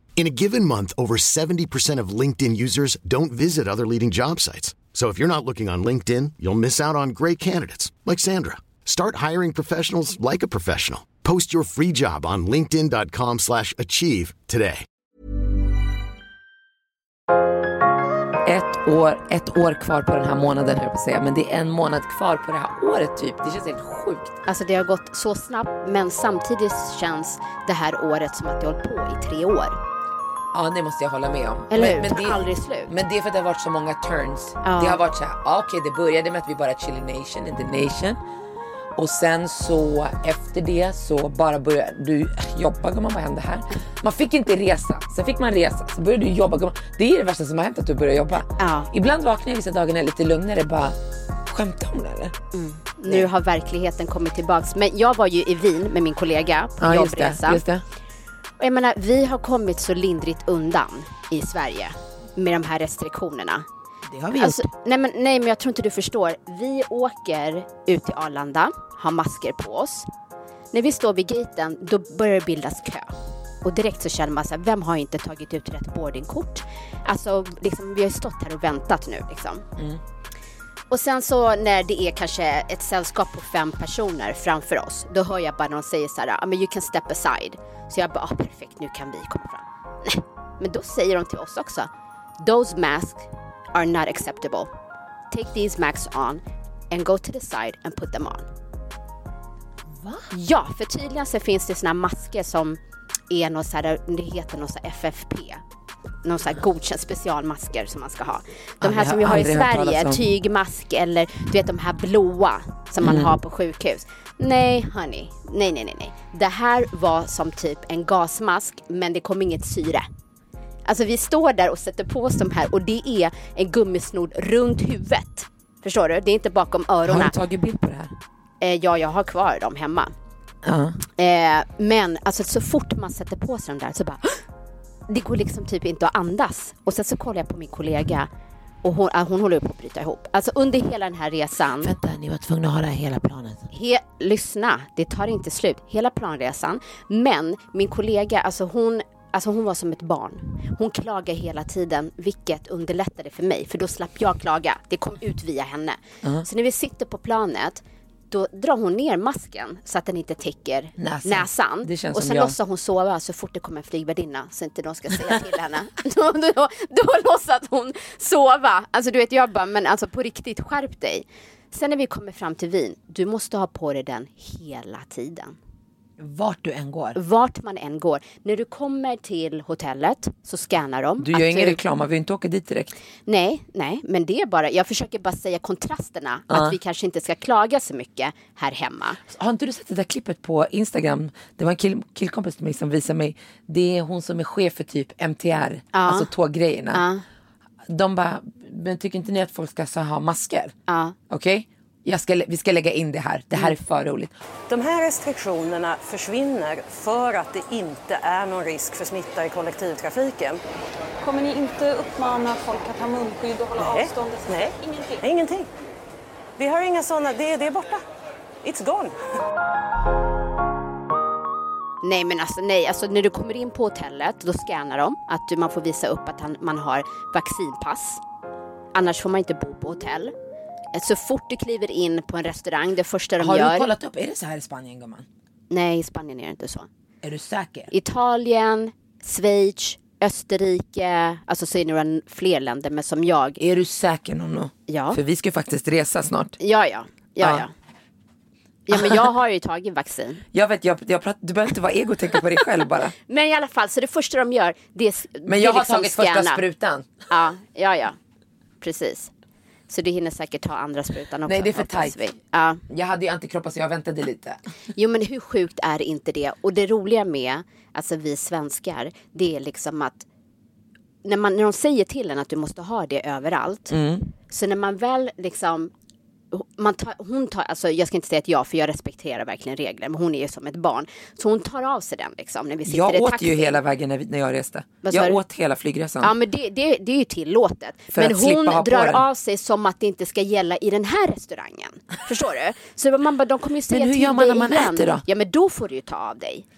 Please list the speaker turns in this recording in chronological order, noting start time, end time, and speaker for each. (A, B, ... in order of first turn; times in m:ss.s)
0:00.2-0:14.8 A
0:18.4-0:24.4 B
0:24.4-0:29.8 C
0:30.5-0:38.2 B
0:31.7-0:32.9 C
0:34.6-0:35.0 C
0:39.0-0:51.0 B
0:48.6-0:48.9 C
0:51.5-0:52.3 B
0:52.5-0:57.6 C
0:56.8-0:57.8 B
0:58.6-1:03.6 C
1:04.1-1:04.7 B
1:04.3-1:10.1 C
1:10.7-1:13.1 C
1:13.6-1:19.6 C
1:20.9-1:31.9 C
1:32.4-1:34.7 C
1:35.3-1:38.5 C
1:40.3-1:42.8 C
1:43.3-1:45.6 C
1:46.2-2:00.0 C
1:48.8-1:50.3 B
1:53.0-1:53.4 B
2:00.8-2:07.3 C
2:07.0-2:08.2 B
2:08.6-2:10.1 C
2:10.6-2:11.0 B
2:11.2-2:14.2 C
2:15.1-2:18.3 C
2:18.8-2:21.9 C
2:21.8-2:23.7 B
2:23.7-2:55.6 C
2:41.0-2:42.5 B
2:56.2-2:57.2 B
2:57.1-3:01.8 C
3:01.2-3:02.9 B
3:03.2-3:09.2 C
3:06.5-3:06.8 B
3:09.3-3:17.0 B
3:15.9-3:16.3 C
3:16.9-3:17.2 C
3:17.9-3:20.7 B
3:20.9-3:21.1 C
3:21.3-3:24.3 B
3:24.7-3:30.6 D
3:31.2-3:35.2 E
3:33.8-3:35.7 D
3:36.6-3:38.0 D
3:38.6-3:39.2 D
3:42.0-3:48.2 C
3:48.9-3:50.3 C
3:50.9-3:53.9 C
3:53.4-3:55.2 B
3:55.7-3:56.9 C
3:57.2-3:57.9 B
3:57.9-4:03.6 C
4:03.6-4:06.6 B
4:04.9-4:05.2 C
4:06.6-4:07.7 C
4:08.9-4:10.4 C
4:08.9-4:09.2 B
4:10.5-4:13.1 B
4:13.3-4:16.6 C
4:15.4-4:17.1 B
4:17.3-4:18.2 C
4:18.8-4:19.3 C
4:19.9-4:22.8 C
4:21.4-4:22.2 B
4:22.9-4:24.6 B
4:25.0-4:30.2 C
4:31.2-4:33.9 C
4:33.9-4:34.3 B
4:34.5-4:35.9 C
4:36.5-4:43.8 C
4:42.8-4:46.3 B
4:45.0-4:45.4 C
4:46.2-4:56.6 C
4:48.1-4:49.2 B
4:53.9-4:55.2 B